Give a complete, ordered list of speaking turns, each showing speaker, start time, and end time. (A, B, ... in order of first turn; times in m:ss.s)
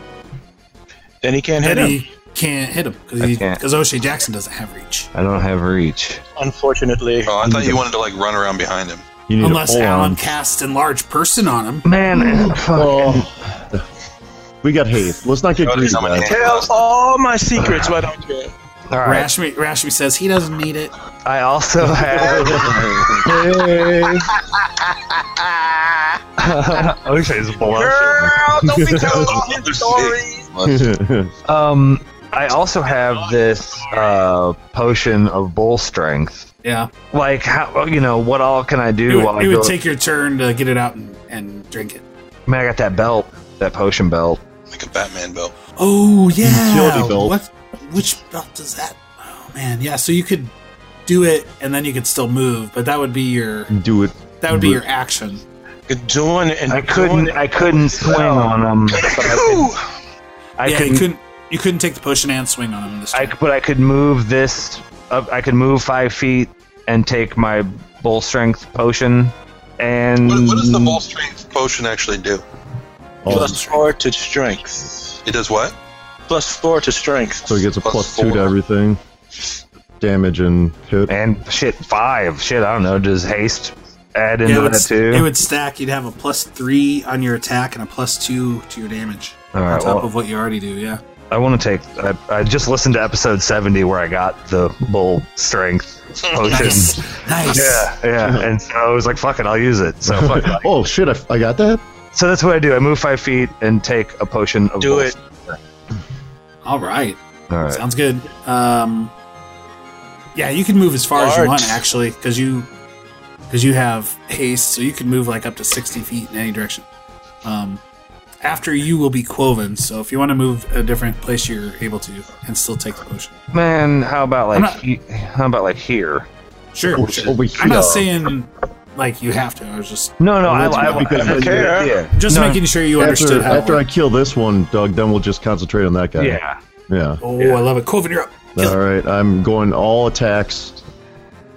0:01.2-0:02.0 A
0:01.6-0:05.1 B
0:03.2-0:03.6 C
0:05.1-0:06.2 C
0:06.4-0:07.3 A
0:07.2-0:09.0 D
0:07.5-0:07.7 E
0:09.3-0:10.3 E
0:09.4-0:11.8 B
0:11.8-0:13.3 C
0:12.2-0:13.8 E
0:14.6-0:16.4 E
0:15.6-0:16.7 D
0:16.2-0:18.5 A
0:17.6-0:17.9 C
0:18.9-0:19.3 C
0:19.0-0:20.9 B
0:21.2-0:23.2 C
0:22.1-0:24.2 E
0:22.9-0:23.2 D
0:26.4-0:28.4 C
0:27.6-0:30.5 A
0:28.7-0:29.3 E
0:29.3-0:30.8 D
0:30.6-0:31.3 E
0:31.4-0:36.4 C
0:33.0-0:34.2 A
0:36.6-0:36.9 B
0:37.1-0:39.7 C
0:39.1-0:42.0 B
0:42.5-0:44.4 C
0:44.7-0:45.5 D
0:45.8-0:50.5 B
0:46.4-0:47.4 E
0:51.0-0:53.7 B
0:53.7-0:54.8 E
0:54.4-0:55.4 B
0:55.9-0:58.5 A
0:56.7-0:59.7 C
0:59.1-0:59.8 D
1:00.6-1:01.0 C
1:00.6-1:03.3 B
1:03.1-1:11.0 C
1:10.2-1:12.4 D
1:13.2-1:13.6 E
1:13.2-1:13.8 B
1:13.3-1:15.1 A
1:15.2-1:15.7 D
1:16.3-1:17.6 A
1:17.4-1:19.0 E
1:17.8-1:18.5 D
1:20.0-1:21.1 E
1:21.1-1:25.3 C
1:24.4-1:31.0 B
1:29.5-1:30.1 C
1:31.3-1:40.7 C
1:36.4-1:36.7 D
1:36.5-1:37.9 B
1:38.2-1:38.5 E
1:40.0-1:41.8 E
1:42.1-1:45.6 C
1:44.8-1:45.1 A
1:46.6-1:47.2 B
1:47.5-1:47.8 C
1:47.7-1:49.1 B
1:50.3-1:52.7 B
1:51.1-1:51.8 A
1:53.5-1:56.8 B
1:57.4-1:57.8 B
1:58.4-2:03.3 B
2:03.5-2:06.3 C
2:04.5-2:04.8 B
2:06.7-2:11.2 B
2:06.9-2:08.2 E
2:10.2-2:12.6 C
2:10.4-2:11.8 E
2:11.2-2:12.0 A
2:12.2-2:13.8 B
2:13.0-2:17.2 E
2:16.2-2:16.6 C
2:17.2-2:18.8 B
2:18.6-2:20.8 E